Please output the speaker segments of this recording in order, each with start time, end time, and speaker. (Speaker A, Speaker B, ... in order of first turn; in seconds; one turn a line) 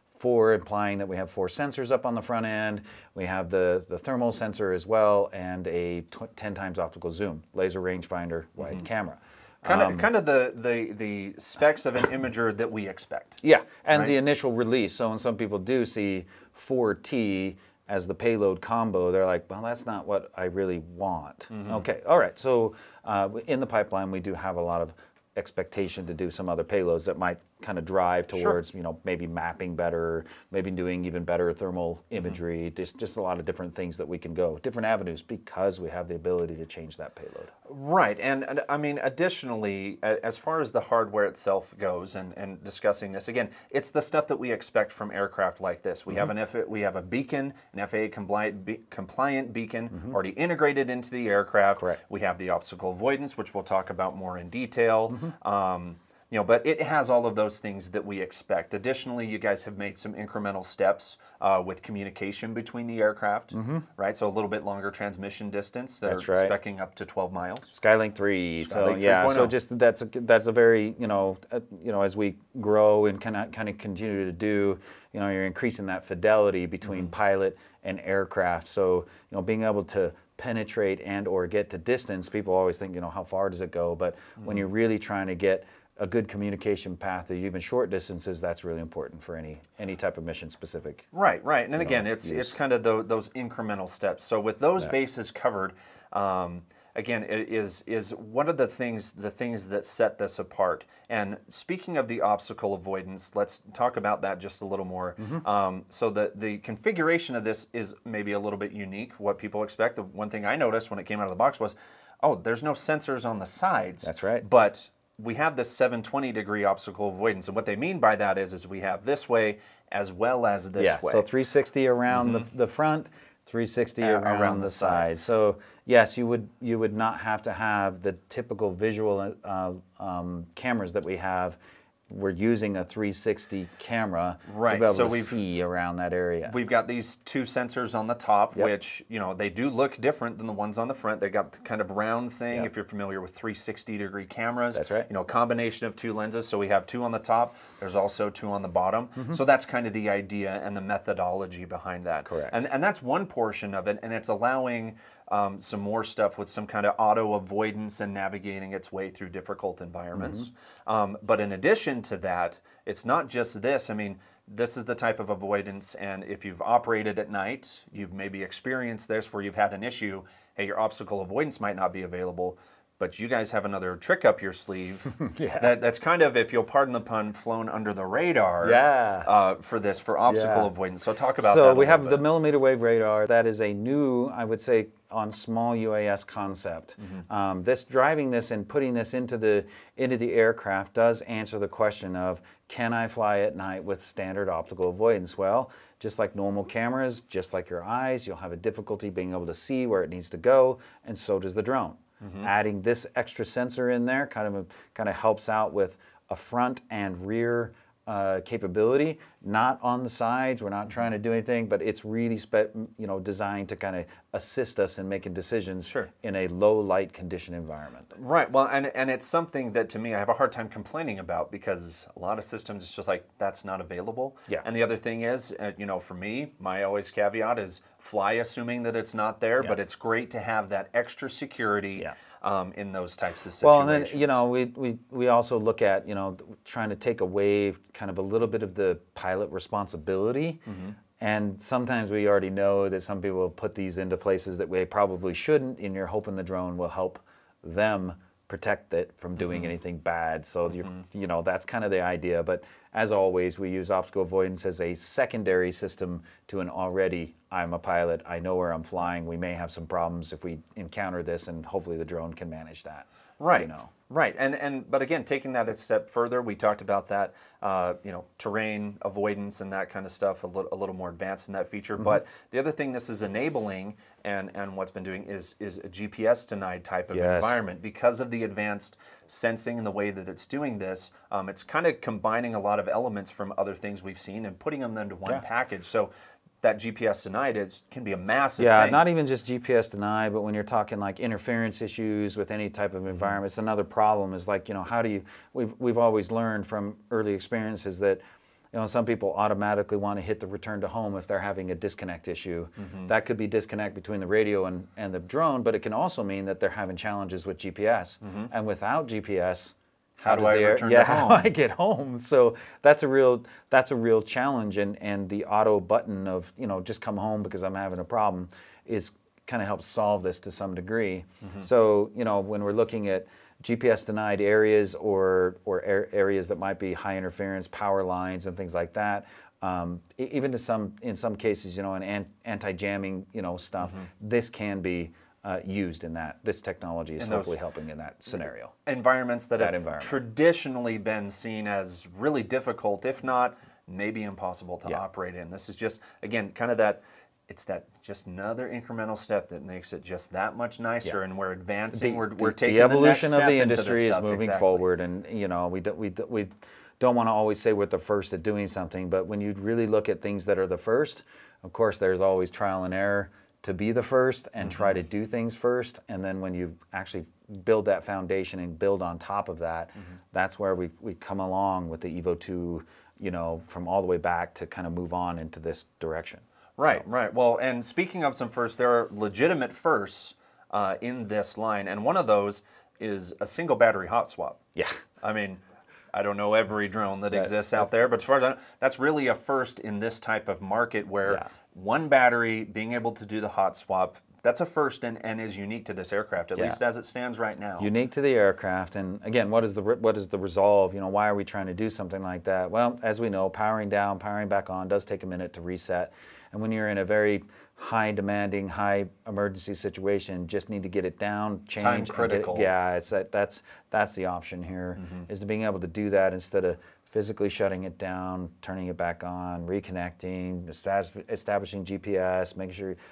Speaker A: 0.2-10.1
Speaker B: 8.6-8.9
Speaker B: 9.6-14.2
Speaker A: 13.4-37.5
Speaker B: 21.5-21.9
Speaker B: 28.3-28.6
Speaker B: 37.7-67.7
Speaker A: 63.5-63.9
Speaker A: 66.0-66.5
Speaker A: 67.7-91.1
Speaker B: 68.6-69.5
Speaker B: 76.8-77.1
Speaker B: 91.1-121.3
Speaker A: 91.8-92.6
Speaker A: 114.0-114.4
Speaker A: 120.8-131.6
Speaker B: 122.1-122.5
Speaker B: 124.0-125.1
Speaker A: 132.1-136.6
Speaker B: 134.5-135.4
Speaker B: 136.5-182.2
Speaker A: 144.7-145.1
Speaker A: 152.2-152.6
Speaker A: 160.2-160.5
Speaker A: 175.2-175.8
Speaker A: 178.6-179.3
Speaker A: 180.3-180.7
Speaker A: 181.4-218.1
Speaker B: 202.2-202.5
Speaker B: 218.1-234.4
Speaker A: 233.6-240.6
Speaker B: 240.7-240.9
Speaker A: 241.2-263.9
Speaker B: 249.4-249.7
Speaker B: 263.4-286.1
Speaker A: 277.1-277.6
Speaker B: 286.6-289.0
Speaker A: 288.6-298.2
Speaker A: 298.7-338.8
Speaker B: 302.8-303.1
Speaker B: 308.2-308.5
Speaker B: 310.2-311.5
Speaker B: 337.2-337.6
Speaker B: 338.9-354.9
Speaker A: 339.6-340.2
Speaker A: 351.9-377.0
Speaker B: 364.6-365.0
Speaker B: 376.8-384.6
Speaker B: 385.2-385.6
Speaker B: 386.1-397.9
Speaker A: 387.3-387.9
Speaker A: 397.8-423.0
Speaker B: 411.8-412.7
Speaker B: 415.0-415.2